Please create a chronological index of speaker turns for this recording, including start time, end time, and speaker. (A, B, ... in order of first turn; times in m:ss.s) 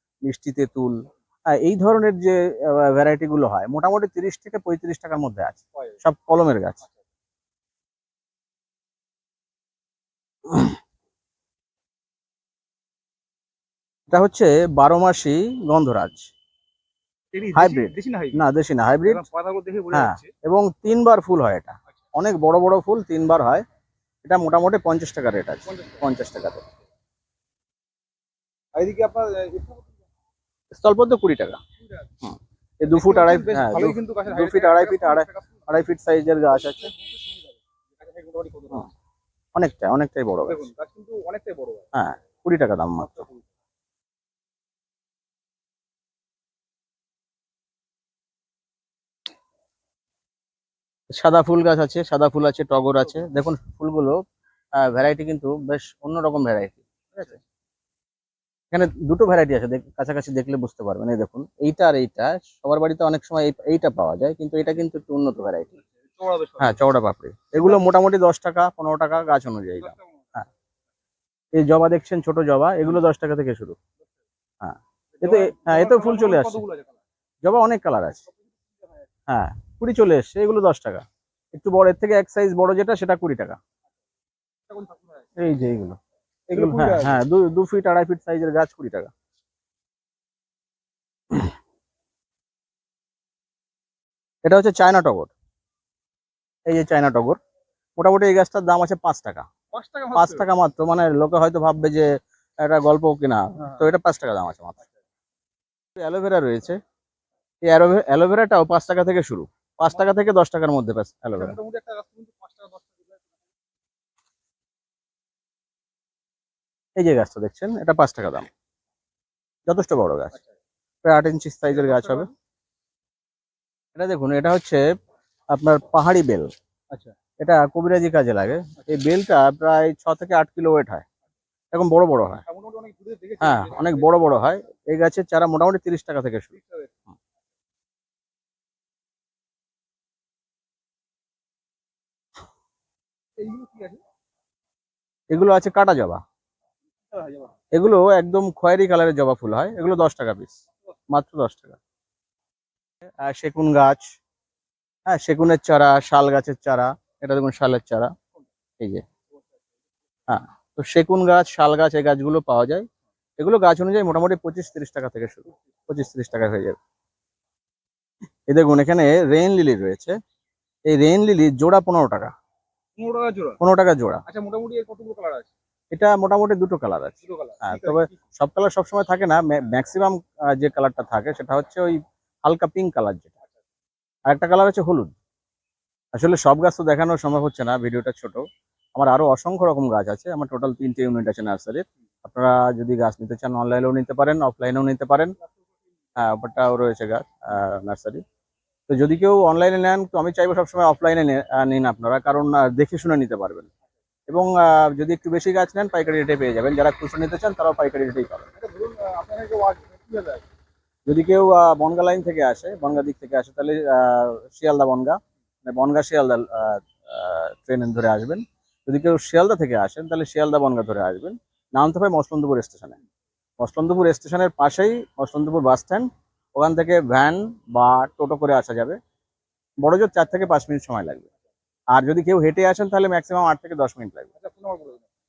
0:00.2-0:06.8 A
0:14.1-0:16.3 A
0:17.3-0:18.5 B
0:17.6-0:19.3 A
0:19.0-0:20.3 B
0:19.9-0:23.6 A
0:24.2-0:26.6 A
0:25.7-0:26.0 B
0:28.8-0:29.9 B
0:30.7-0:31.6 A
0:32.2-0:36.9 A
0:32.9-0:35.8 B
0:36.5-0:38.9 B
0:39.6-0:40.7 A
0:40.4-0:41.9 B
0:41.9-0:43.3 A
0:43.0-0:43.4 B
0:51.2-0:54.2 A
0:54.8-0:57.3 A
0:58.7-1:05.8 A
1:06.1-1:06.8 B
1:06.6-1:10.5 A
1:11.5-1:13.8 A
1:14.6-1:16.6 A
1:15.2-1:17.0 B
1:17.4-1:18.2 A
1:19.3-1:23.6 A
1:24.7-1:25.3 B
1:25.4-1:26.0 A
1:26.5-1:27.2 B
1:26.5-1:29.1 A
1:34.4-1:35.3 A
1:36.7-1:37.4 A
1:38.0-1:39.4 A
1:39.7-1:40.5 B
1:40.1-1:44.9 A
1:46.0-1:46.8 A
1:47.7-1:51.6 A
1:51.4-1:53.2 B
1:57.0-1:58.5 A
1:59.7-2:00.4 A
2:01.0-2:02.3 A
2:01.7-2:02.3 B
2:04.0-2:04.8 A
2:05.5-2:06.5 A
2:07.4-2:11.0 A
2:11.7-2:12.4 A
2:12.5-2:14.2 B
2:13.4-2:16.6 A
2:16.6-2:16.9 B
2:23.4-2:24.0 B
2:25.3-2:26.2 A
2:27.1-2:27.5 B
2:27.7-2:31.8 A
2:33.2-2:34.1 A
2:35.1-2:38.1 A
2:38.8-2:39.0 A
2:40.3-2:42.9 A
2:43.4-2:46.8 A
2:48.5-2:50.2 A
2:50.9-2:52.3 A
2:53.0-2:53.6 B
2:53.6-2:54.2 A
2:54.3-2:55.5 B
2:55.9-3:03.3 A
2:57.2-2:58.2 B
3:04.3-3:05.2 A
3:06.1-3:08.4 A
3:09.0-3:15.4 A
3:16.2-3:18.2 A
3:18.9-3:23.7 A
3:24.3-3:28.5 A
3:28.6-3:30.4 B
3:31.1-3:43.0 A
3:43.6-3:49.0 A
3:49.8-3:51.3 A
3:51.9-3:54.3 A
3:54.4-3:55.0 B